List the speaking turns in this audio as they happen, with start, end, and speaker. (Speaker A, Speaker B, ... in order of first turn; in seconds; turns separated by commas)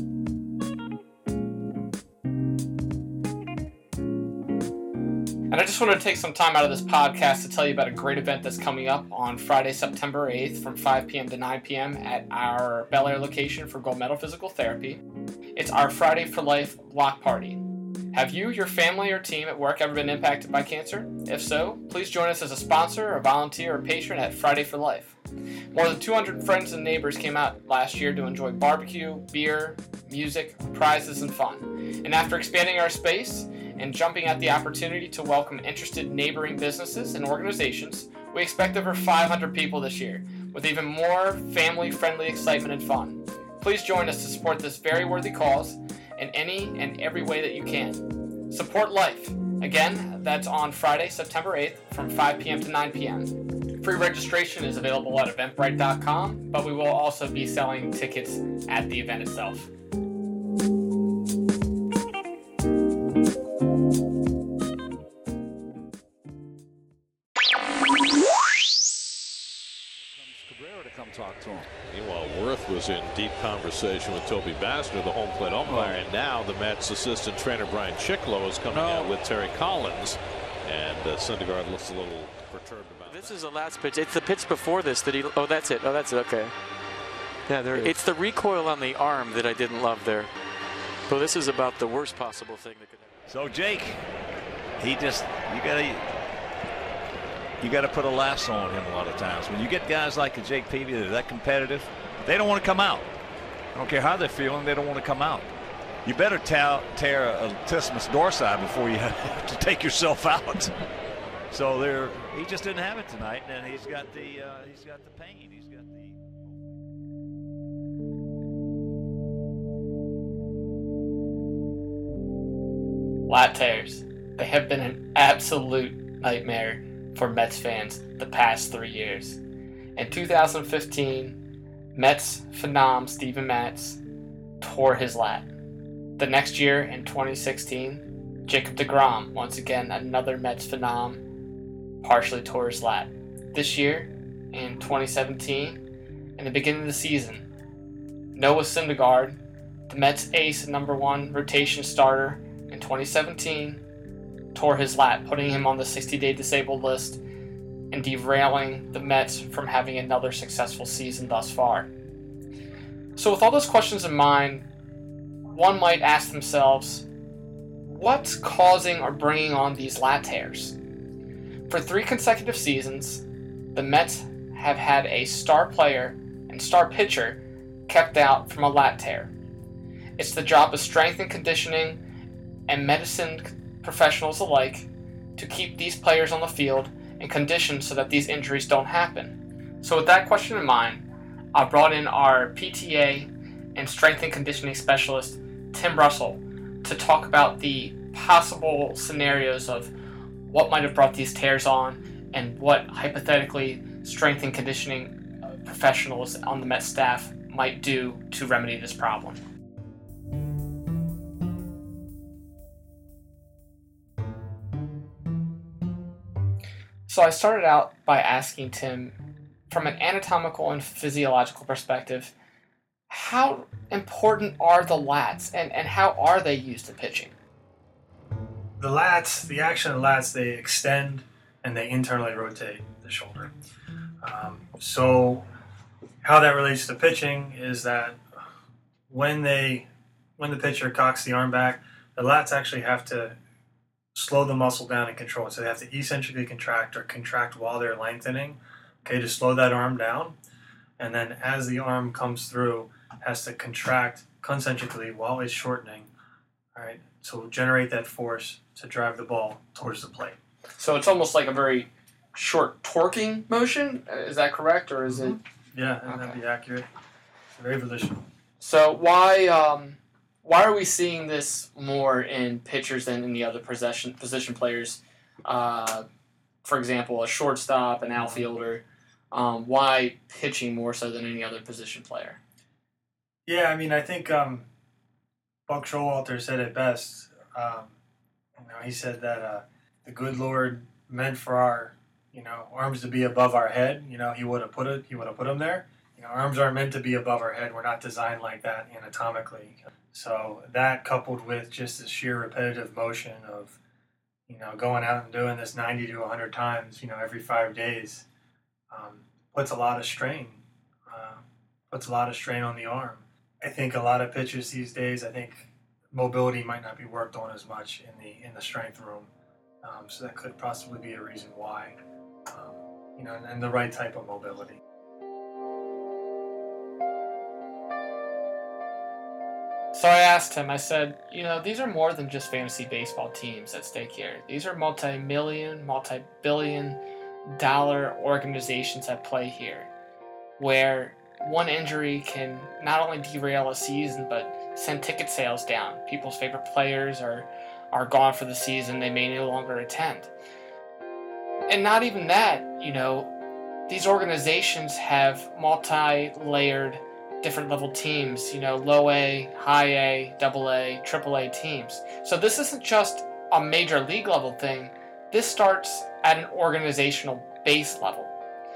Speaker A: 5.5-15.0, Speaker A: 15.5-25.1, Speaker A: 25.7-59.7, Speaker B: 70.0-71.7, Speaker C: 71.9-83.4, Speaker B: 75.7-76.0, Speaker B: 78.7-79.2, Speaker D: 83.1-86.5, Speaker D: 87.5-90.3, Speaker D: 91.1-93.2, Speaker B: 93.3-94.0, Speaker B: 94.8-96.0, Speaker B: 97.6-103.1, Speaker B: 103.7-105.5, Speaker B: 106.0-110.7, Speaker B: 111.5-116.7, Speaker A: 123.3-129.4, Speaker A: 130.0-131.4, Speaker A: 131.9-134.0, Speaker A: 134.6-135.5, Speaker A: 136.2-141.2, Speaker A: 142.0-145.8, Speaker A: 146.4-147.5, Speaker A: 148.3-149.4, Speaker A: 149.9-153.8, Speaker A: 154.5-157.2, Speaker A: 157.9-161.9, Speaker A: 163.2-164.7, Speaker A: 165.5-167.0, Speaker A: 167.8-170.8, Speaker A: 171.7-173.2, Speaker A: 173.7-179.3, Speaker A: 180.2-182.0, Speaker A: 182.7-199.9, Speaker A: 200.5-209.4, Speaker A: 217.1-219.2, Speaker A: 219.7-222.3, Speaker A: 223.1-227.3, Speaker E: 228.8-233.5, Speaker E: 234.2-235.4, Speaker E: 236.2-238.2, Speaker E: 239.1-243.4, Speaker E: 244.1-250.3, Speaker E: 251.0-256.1, Speaker E: 256.8-260.4, Speaker A: 260.8-265.4, Speaker E: 265.1-266.9, Speaker A: 266.1-266.4, Speaker E: 267.6-268.2, Speaker A: 268.6-276.0, Speaker A: 276.6-282.4, Speaker E: 283.5-284.7, Speaker E: 285.7-287.9, Speaker E: 288.6-303.8, Speaker E: 304.5-308.2, Speaker E: 308.9-319.3, Speaker E: 319.8-324.8, Speaker A: 329.9-339.9, Speaker A: 340.6-350.3, Speaker A: 351.7-353.3, Speaker A: 353.9-368.3